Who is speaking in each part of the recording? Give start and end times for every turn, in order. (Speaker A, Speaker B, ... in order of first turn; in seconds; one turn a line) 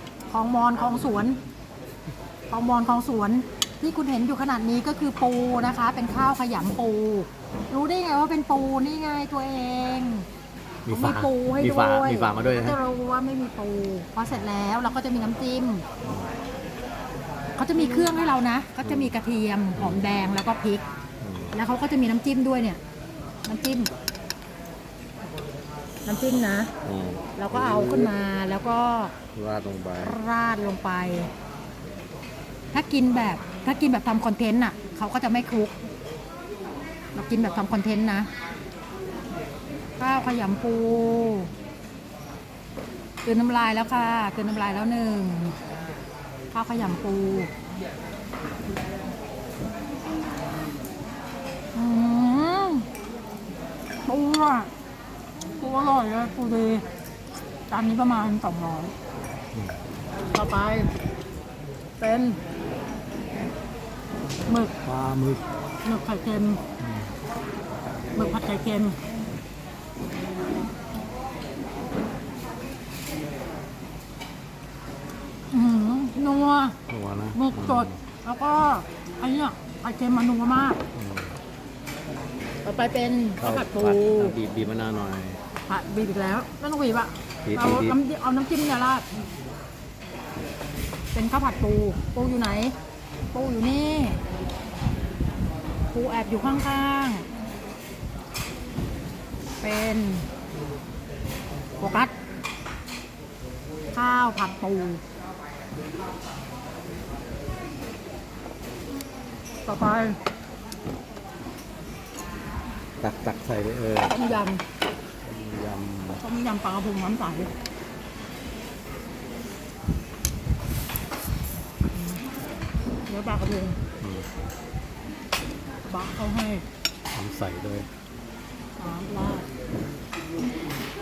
Speaker A: 0.3-1.4
Speaker A: 2.5-10.3
Speaker B: 10.9-12.8
Speaker A: 10.9-15.8
Speaker B: 16.0-16.3
Speaker A: 17.6-20.8
Speaker B: 18.8-19.1
Speaker B: 19.8-20.1
Speaker B: 21.2-21.5
Speaker A: 21.5-22.8
Speaker A: 23.5-23.9
Speaker A: 26.1-26.7
Speaker B: 26.8-28.1
Speaker A: 27.4-29.1
Speaker B: 29.4-30.2
Speaker A: 30.0-31.3
Speaker A: 32.7-35.7
Speaker A: 37.1-38.3
Speaker A: 40.0-41.5
Speaker A: 43.2-45.5
Speaker A: 46.5-47.5
Speaker A: 51.8-52.9
Speaker A: 54.0-54.7
Speaker A: 55.6-56.9
Speaker A: 57.7-58.9
Speaker B: 59.5-59.8
Speaker A: 60.3-60.9
Speaker A: 62.0-62.4
Speaker A: 64.5-64.7
Speaker B: 64.8-65.4
Speaker A: 65.8-66.6
Speaker B: 66.8-67.1
Speaker A: 68.2-69.0
Speaker A: 75.5-76.8
Speaker B: 76.9-78.0
Speaker A: 77.3-80.8
Speaker B: 81.0-81.3
Speaker A: 82.6-84.4
Speaker B: 83.4-85.4
Speaker A: 85.7-89.0
Speaker B: 87.5-88.0
Speaker A: 91.1-92.8
Speaker A: 93.3-94.2
Speaker A: 95.9-97.3
Speaker A: 99.6-100.3
Speaker A: 101.8-102.1
Speaker A: 103.9-105.0
Speaker A: 109.7-110.2
Speaker B: 113.0-114.3
Speaker A: 114.0-114.6
Speaker B: 115.2-116.2
Speaker A: 116.2-117.5
Speaker A: 121.9-122.2
Speaker A: 123.1-123.8
Speaker B: 124.0-124.3
Speaker A: 125.9-126.7
Speaker B: 127.1-127.9
Speaker A: 128.8-129.5